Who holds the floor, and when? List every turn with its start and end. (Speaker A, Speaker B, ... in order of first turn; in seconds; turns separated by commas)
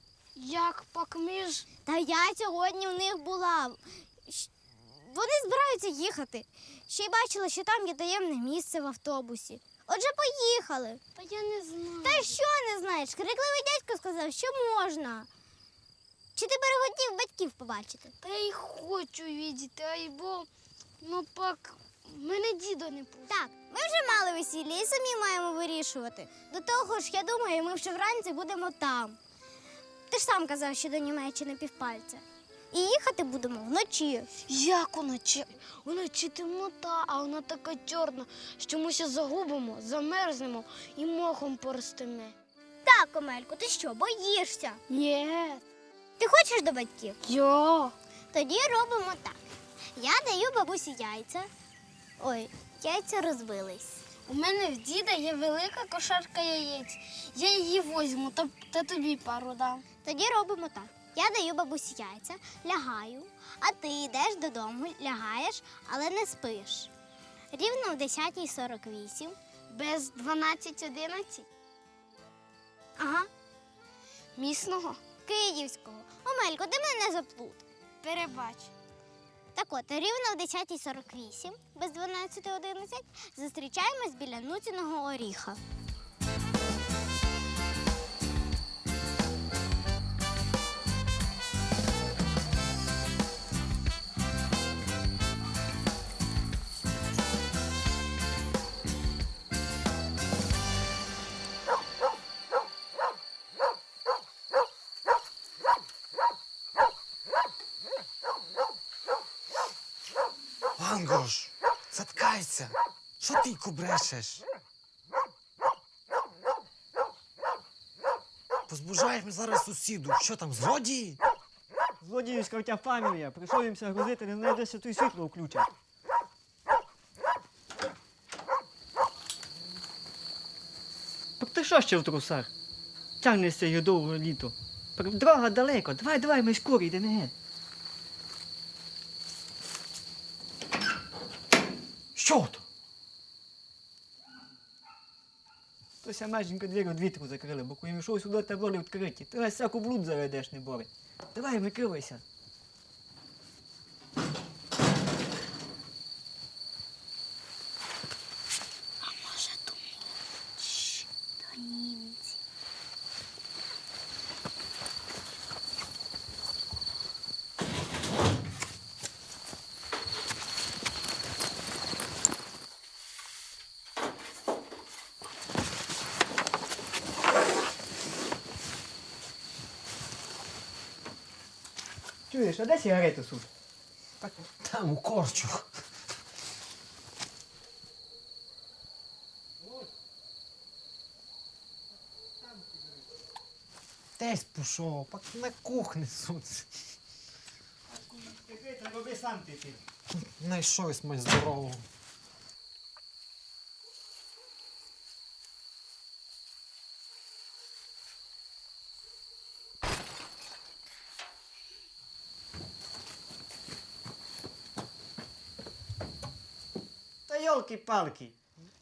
Speaker A: 0.3-1.7, Speaker B: 1.8-11.0, Speaker A: 11.2-12.4, Speaker B: 12.0-15.3, Speaker B: 16.3-18.1, Speaker A: 18.2-20.5, Speaker A: 21.0-23.4, Speaker B: 23.3-29.2, Speaker B: 30.1-34.3, Speaker A: 34.5-42.3, Speaker B: 42.8-44.8, Speaker A: 44.9-45.6, Speaker B: 46.2-47.2, Speaker A: 47.2-47.9, Speaker B: 48.3-49.4, Speaker B: 50.0-51.5, Speaker B: 52.2-54.0, Speaker A: 54.2-59.9, Speaker B: 60.0-66.9, Speaker B: 67.5-69.4, Speaker A: 69.7-71.5, Speaker A: 73.0-73.3, Speaker A: 74.3-75.0, Speaker B: 75.2-77.7, Speaker A: 78.0-78.7, Speaker B: 79.5-85.6, Speaker C: 110.8-114.4, Speaker C: 118.7-121.2, Speaker D: 122.0-125.7, Speaker D: 131.4-132.5, Speaker D: 133.2-137.3, Speaker D: 142.2-142.6, Speaker D: 146.0-152.2, Speaker A: 159.2-159.8, Speaker B: 160.6-162.3, Speaker D: 182.3-183.5, Speaker C: 184.2-185.7, Speaker C: 194.2-196.7, Speaker D: 197.9-199.8, Speaker C: 200.1-201.8, Speaker D: 217.3-218.3